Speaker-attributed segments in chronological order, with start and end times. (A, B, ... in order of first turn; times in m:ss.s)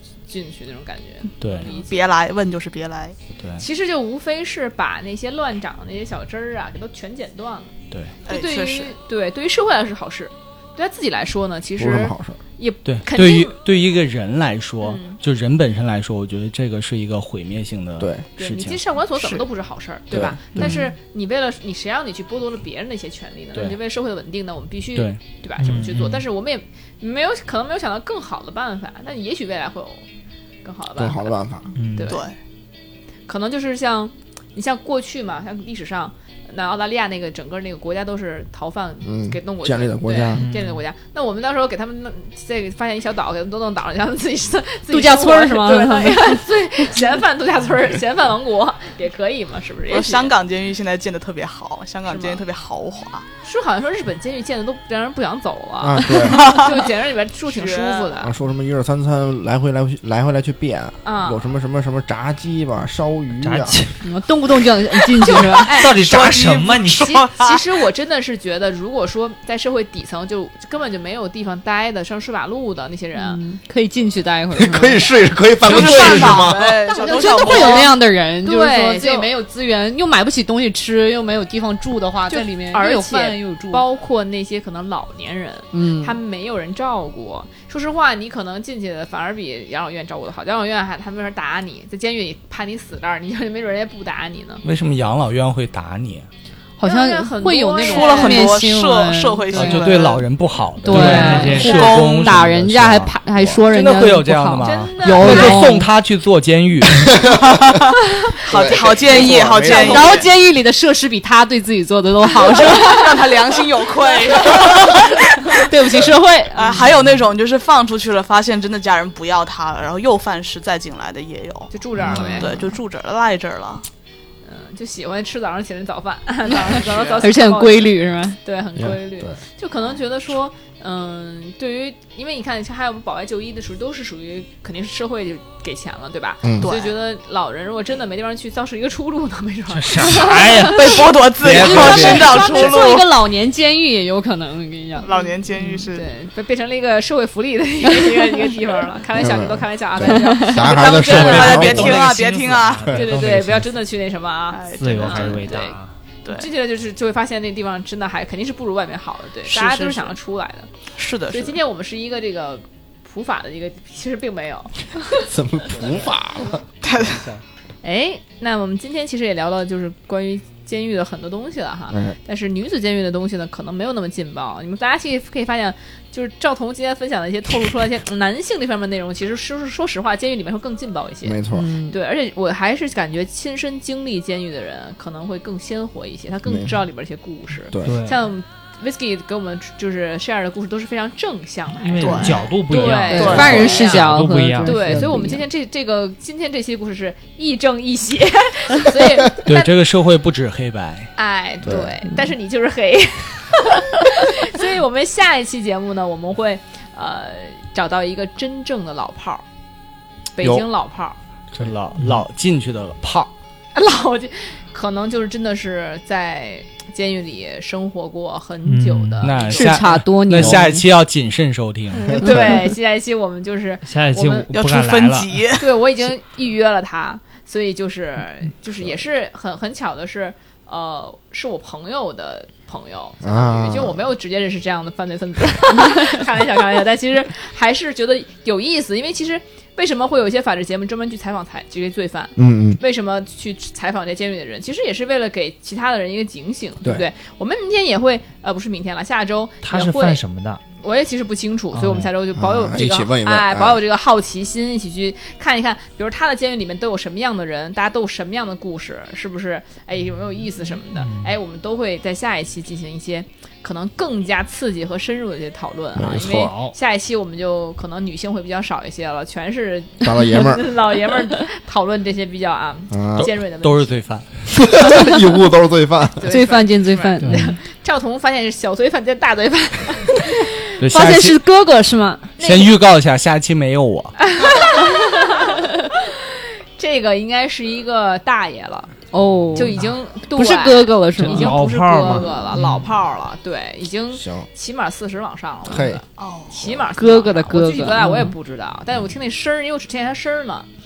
0:00.3-0:02.0 A
0:01.4-0:01.7 B
0:01.5-0:03.2 C
0:03.4-0:03.6 B
0:03.6-0:07.7 A
0:08.2-0:08.9 C
0:08.3-0:13.6 A
0:11.8-0:12.4 D
0:12.8-0:18.9 B
0:14.8-0:15.2 A
0:18.0-0:18.2 D
0:18.4-0:30.0 A
0:20.1-0:20.6 D
0:20.5-0:20.9 C
0:23.5-0:23.8 B
0:25.6-0:26.2 E
0:30.6-0:32.3 A
0:31.0-0:31.7 D
0:31.7-0:32.1 E
0:32.1-0:32.4 C
0:33.3-0:50.3 A
0:39.0-0:40.4 D
0:40.3-0:40.8 E
0:44.9-0:46.4 F
0:49.9-0:53.2 C
0:52.0-0:52.4 A
0:53.4-0:58.3 A
0:55.8-0:56.5 D
0:56.3-0:56.8 C
0:57.5-0:58.2 C
0:58.2-1:03.8 D
1:01.0-1:01.4 A
1:03.4-1:03.9 E
1:04.0-1:05.7 F
1:05.2-1:13.4 A
1:05.4-1:07.6 C
1:05.7-1:07.2 E
1:13.1-1:15.1 F
1:14.5-1:16.8 D
1:15.6-1:18.0 C
1:16.9-1:23.8 F
1:17.0-1:17.9 A
1:18.4-1:19.3 A
1:22.3-1:34.6 A
1:25.7-1:26.2 F
1:34.6-1:36.3 B
1:36.8-1:39.9 F
1:36.8-1:38.5 A
1:37.8-1:40.2 C
1:39.5-1:47.1 B
1:40.8-1:45.9 F
1:40.9-1:42.0 E
1:41.1-1:42.3 C
1:44.6-1:45.7 A
1:47.1-1:47.8 D
1:48.4-1:50.3 C
1:48.5-1:50.1 D
1:49.6-1:53.3 F
1:52.4-1:56.0 C
1:54.3-1:55.0 F
1:55.5-1:56.8 F
1:56.5-2:03.8 C
2:01.7-2:02.6 A
2:02.0-2:02.4 D
2:04.4-2:20.7 A
2:06.8-2:07.3 C
2:07.2-2:08.4 F
2:08.8-2:09.4 D
2:16.4-2:16.7 D
2:16.6-2:17.0 C
2:19.7-2:20.9 E
2:20.6-2:23.2 C
2:21.4-2:22.4 D
2:21.6-2:25.1 F
2:25.0-2:26.1 C
2:25.0-2:25.3 A
2:25.9-2:31.6 A
2:28.0-2:28.4 F
2:29.1-2:32.1 D
2:30.0-2:30.7 F
2:30.8-2:32.9 C
2:30.9-2:33.7 E
2:32.8-2:33.1 D
2:32.9-2:40.7 A
2:34.5-2:35.7 C
2:34.7-2:35.9 E
2:39.4-2:40.2 C
2:41.0-2:41.6 C
2:41.3-2:45.3 A
2:45.2-2:46.6 D
2:46.8-2:47.3 C
2:47.8-3:19.7 A
3:01.2-3:01.7 D
3:01.5-3:02.0 F
3:06.4-3:06.7 D
3:07.7-3:08.0 D
3:07.8-3:08.2 E
3:11.8-3:14.8 E
3:12.0-3:12.5 C
3:12.8-3:15.4 F
3:13.1-3:13.8 C
3:14.9-3:15.1 D
3:19.4-3:21.1 B
3:21.2-3:29.4 A
3:21.6-3:21.9 D
3:30.3-3:31.2 A
3:30.4-3:30.6 D
3:31.5-3:33.3 B
3:32.0-3:32.2 E
3:33.7-3:39.8 A
3:38.6-3:39.4 E
3:39.2-3:42.3 B
3:39.5-3:40.8 F
3:40.4-3:40.7 D
3:41.9-3:44.5 A
3:42.3-3:42.5 F
3:43.8-3:45.4 E
3:44.5-3:45.6 C
3:45.6-4:10.2 A
3:53.2-3:54.0 D
4:02.4-4:02.8 D
4:09.6-4:10.6 E
4:10.8-4:33.9 A
4:11.7-4:12.1 E
4:12.3-4:13.8 D
4:20.9-4:21.3 E
4:25.9-4:26.5 D
4:26.3-4:26.8 E
4:30.0-4:30.7 D
4:32.9-4:33.3 D
4:33.2-4:34.3 B
4:34.5-4:36.2 D
4:36.2-4:40.6 A
4:36.2-4:37.4 F
4:37.2-4:37.5 B
4:40.8-4:41.4 B
4:40.9-4:42.3 F
4:42.4-4:42.7 A
4:42.4-4:44.2 B
4:44.2-4:48.9 A
4:49.1-4:51.6 F
4:49.5-5:00.7 A
4:51.2-4:52.9 E
4:54.1-4:54.4 D
4:55.6-4:56.0 D
4:56.2-4:56.8 C
4:56.9-4:58.3 F